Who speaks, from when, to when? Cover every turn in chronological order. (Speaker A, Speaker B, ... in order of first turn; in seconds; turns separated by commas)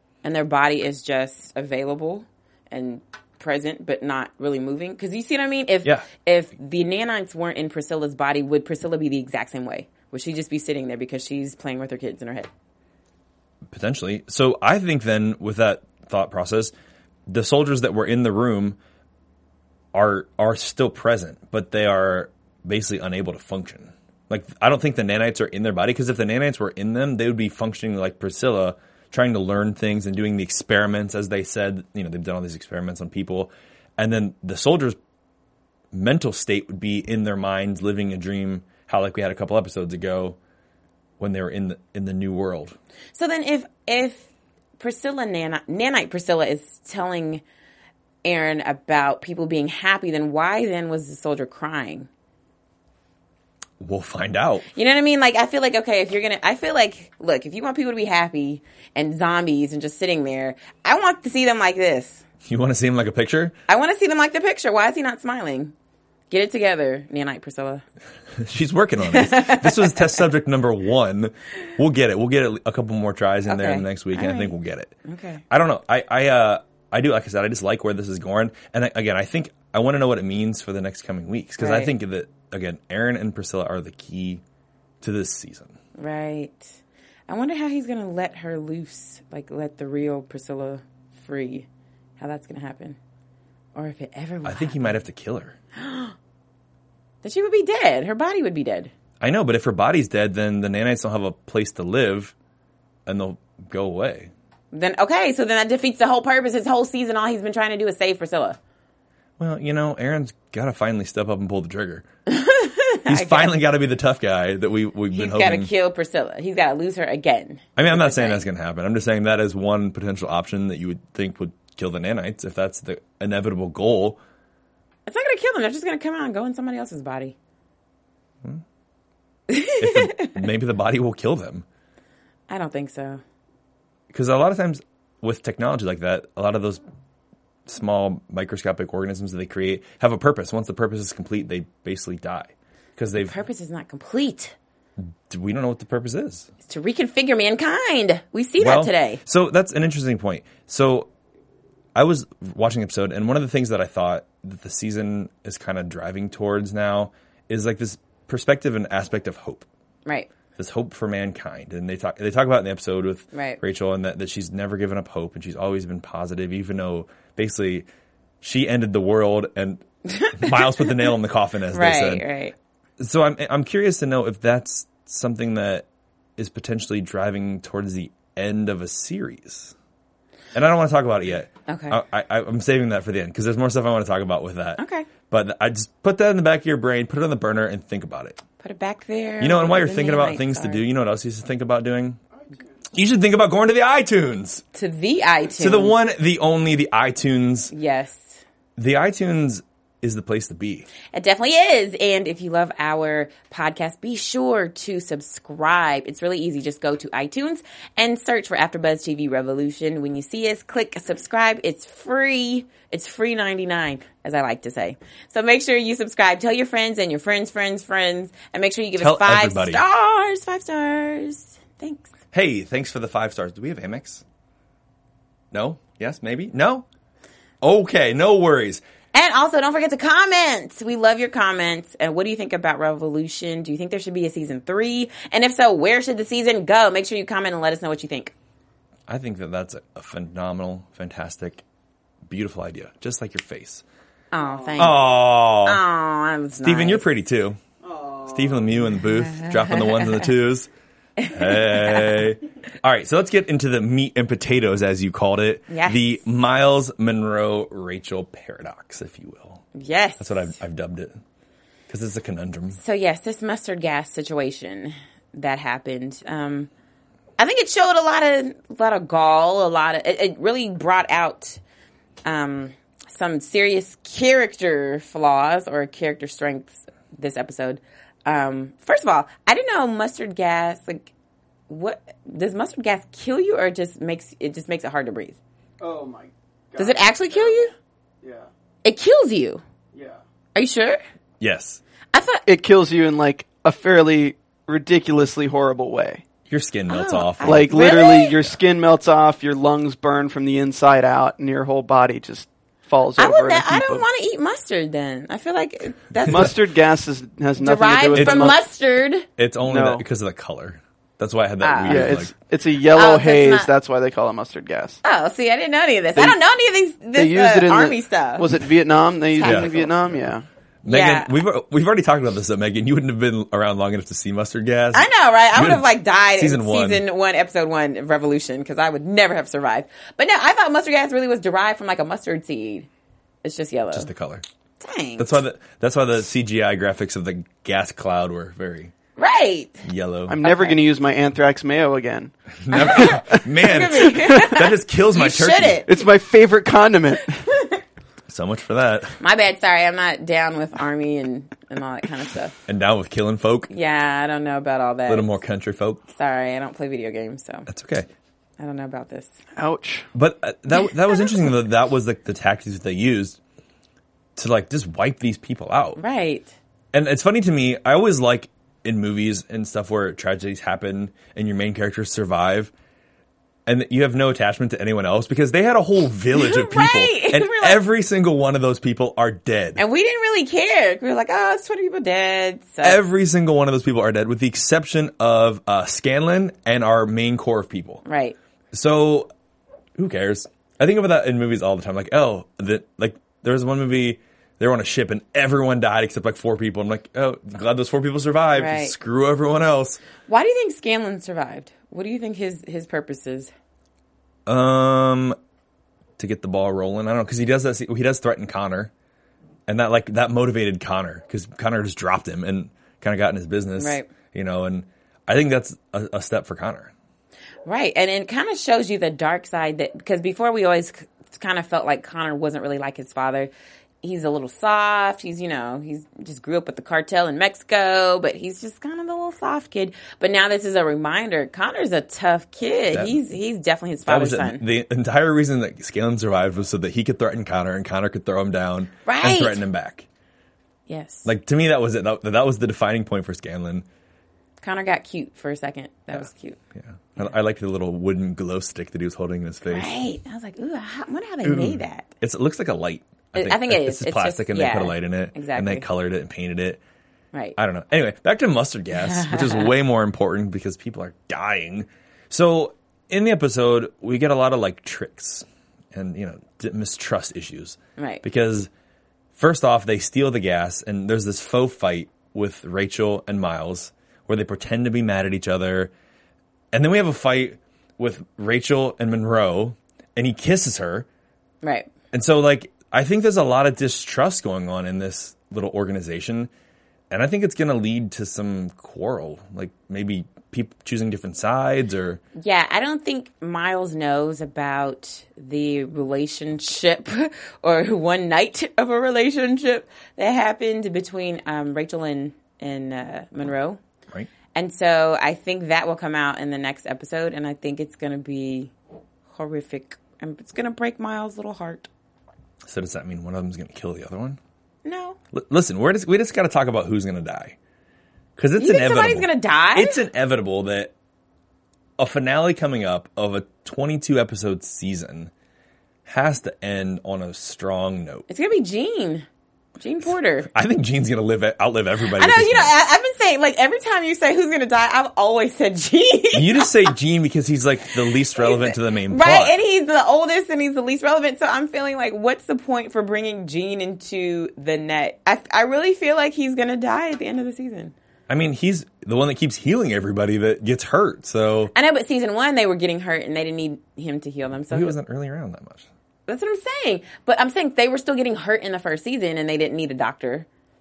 Speaker A: 0.2-12.5, Speaker B: 13.7-16.7, Speaker B: 17.3-18.8, Speaker B: 19.9-35.0, Speaker B: 35.9-40.4, Speaker B: 41.2-42.8, Speaker A: 43.1-44.3, Speaker A: 44.8-47.4, Speaker A: 48.2-52.1, Speaker B: 53.8-54.7, Speaker A: 54.7-62.2, Speaker B: 62.5-63.5, Speaker A: 63.7-65.7, Speaker A: 66.3-67.8, Speaker B: 68.4-75.0, Speaker A: 69.1-70.2, Speaker A: 73.5-74.5, Speaker A: 75.0-75.4, Speaker B: 75.5-84.4, Speaker A: 81.6-81.9, Speaker B: 85.0-85.8, Speaker A: 86.0-86.8, Speaker A: 87.3-91.7, Speaker A: 92.2-93.0, Speaker A: 93.8-95.0, Speaker B: 94.4-95.6, Speaker A: 95.8-96.2, Speaker A: 97.2-98.9, Speaker B: 99.2-102.3, Speaker B: 103.1-104.3, Speaker A: 104.7-108.6, Speaker B: 109.4-112.1, Speaker A: 112.3-113.5, Speaker B: 113.1-115.7, Speaker A: 115.1-118.4, Speaker B: 117.8-124.2, Speaker A: 125.1-127.3, Speaker A: 129.5-130.4, Speaker B: 129.8-131.7, Speaker A: 132.5-133.2, Speaker B: 134.1-136.8, Speaker B: 137.7-143.3, Speaker A: 143.2-144.6, Speaker B: 145.0-146.5, Speaker A: 146.7-149.2, Speaker B: 148.6-151.1, Speaker B: 151.9-159.7, Speaker B: 160.6-167.9, Speaker A: 163.3-163.6, Speaker B: 168.4-172.3, Speaker A: 170.1-171.1, Speaker A: 171.7-172.6, Speaker B: 173.0-175.8, Speaker B: 176.4-179.7, Speaker B: 180.5-188.4, Speaker A: 181.7-182.0, Speaker A: 184.8-185.1, Speaker A: 188.6-190.8, Speaker B: 189.4-192.2, Speaker B: 192.9-194.7, Speaker A: 194.7-195.9, Speaker B: 195.6-197.7, Speaker A: 197.7-198.4, Speaker B: 198.8-200.9, Speaker A: 201.1-222.1, Speaker B: 219.0-219.8, Speaker B: 222.3-224.2, Speaker B: 225.5-226.9, Speaker B: 227.6-228.8, Speaker A: 229.1-238.3, Speaker B: 239.1-241.6, Speaker B: 242.3-243.8, Speaker A: 244.3-245.1, Speaker C: 244.4-244.9, Speaker B: 244.8-245.8, Speaker A: 245.6-247.1, Speaker B: 246.6-247.6, Speaker C: 247.8-248.6, Speaker B: 248.2-250.7, Speaker A: 249.3-250.2, Speaker A: 251.2-252.2, Speaker B: 251.3-259.6, Speaker A: 255.7-256.2, Speaker A: 259.7-260.6, Speaker B: 260.2-261.2, Speaker B: 261.9-262.8, Speaker A: 262.8-266.7, Speaker A: 267.4-271.6, Speaker A: 272.2-281.1, Speaker A: 281.7-285.4, Speaker C: 285.8-287.7, Speaker A: 286.8-287.7, Speaker C: 288.2-288.5, Speaker A: 288.8-289.6, Speaker C: 289.9-290.2, Speaker A: 290.6-291.0, Speaker B: 291.4-291.8, Speaker A: 292.1-292.4, Speaker C: 292.5-296.2, Speaker B: 296.5-297.8, Speaker A: 296.9-298.4, Speaker C: 297.4-304.1, Speaker A: 303.2-306.6, Speaker C: 306.3-308.6, Speaker A: 307.6-309.3, Speaker B: 308.2-308.6, Speaker B: 309.4-312.3, Speaker C: 309.7-310.0, Speaker A: 311.6-312.2, Speaker C: 311.9-315.0, Speaker A: 312.9-313.7, Speaker A: 315.0-318.5, Speaker C: 317.1-320.4, Speaker A: 319.3-319.9, Speaker B: 319.4-319.7, Speaker B: 320.8-327.0, Speaker A: 320.9-321.3, Speaker A: 324.9-332.9, Speaker A: 333.4-334.1, Speaker B: 333.9-334.4, Speaker A: 334.8-335.4, Speaker B: 335.2-338.9, Speaker A: 339.2-339.9, Speaker B: 339.8-340.4, Speaker C: 340.3-343.5, Speaker A: 340.4-340.8, Speaker B: 342.6-345.8, Speaker A: 342.7-345.9, Speaker C: 344.0-344.6, Speaker C: 345.9-347.4, Speaker A: 347.4-347.8, Speaker B: 348.3-349.2, Speaker A: 349.2-352.6, Speaker B: 352.7-353.7, Speaker A: 353.7-355.4, Speaker B: 355.1-356.0, Speaker A: 356.1-357.7, Speaker B: 357.7-358.1, Speaker A: 358.6-359.3, Speaker C: 359.6-360.1, Speaker B: 360.1-363.4, Speaker B: 364.4-366.0, Speaker A: 366.0-366.5, Speaker B: 366.9-372.7, Speaker B: 373.7-379.8, Speaker A: 376.3-377.8, Speaker A: 379.8-383.0, Speaker B: 382.8-388.0, Speaker A: 388.1-388.4, Speaker B: 388.7-389.3, Speaker B: 390.0-400.0, Speaker A: 398.6-398.9, Speaker A: 400.3-403.5, Speaker B: 404.5-405.4, Speaker B: 406.2-408.9, Speaker B: 409.7-416.9, Speaker A: 413.8-414.1, Speaker A: 417.6-423.5, Speaker A: 424.0-434.6, Speaker B: 432.9-433.2, Speaker B: 434.1-440.1, Speaker A: 439.1-439.6, Speaker A: 440.9-441.3, Speaker B: 441.2-443.9, Speaker A: 444.6-446.6, Speaker B: 446.1-449.9, Speaker A: 449.7-452.1, Speaker B: 451.4-456.8, Speaker A: 453.4-455.9, Speaker B: 457.6-468.7, Speaker A: 458.9-459.7, Speaker A: 468.0-468.2, Speaker B: 469.4-475.9, Speaker B: 476.7-481.1, Speaker A: 481.6-481.9, Speaker B: 482.1-486.5, Speaker B: 487.1-492.2, Speaker A: 492.4-503.8, Speaker A: 504.5-508.7, Speaker A: 509.3-511.9, Speaker B: 512.7-514.4, Speaker A: 514.9-515.2, Speaker B: 515.3-517.6, Speaker B: 518.4-520.9, Speaker A: 518.6-520.0, Speaker B: 522.0-525.3, Speaker B: 526.1-528.3, Speaker A: 528.3-529.3, Speaker A: 529.8-530.5, Speaker B: 530.5-532.7, Speaker A: 532.1-536.9, Speaker B: 536.3-539.5, Speaker A: 538.4-547.9, Speaker B: 548.3-551.7, Speaker A: 551.7-554.9, Speaker B: 554.7-555.9, Speaker A: 556.3-560.5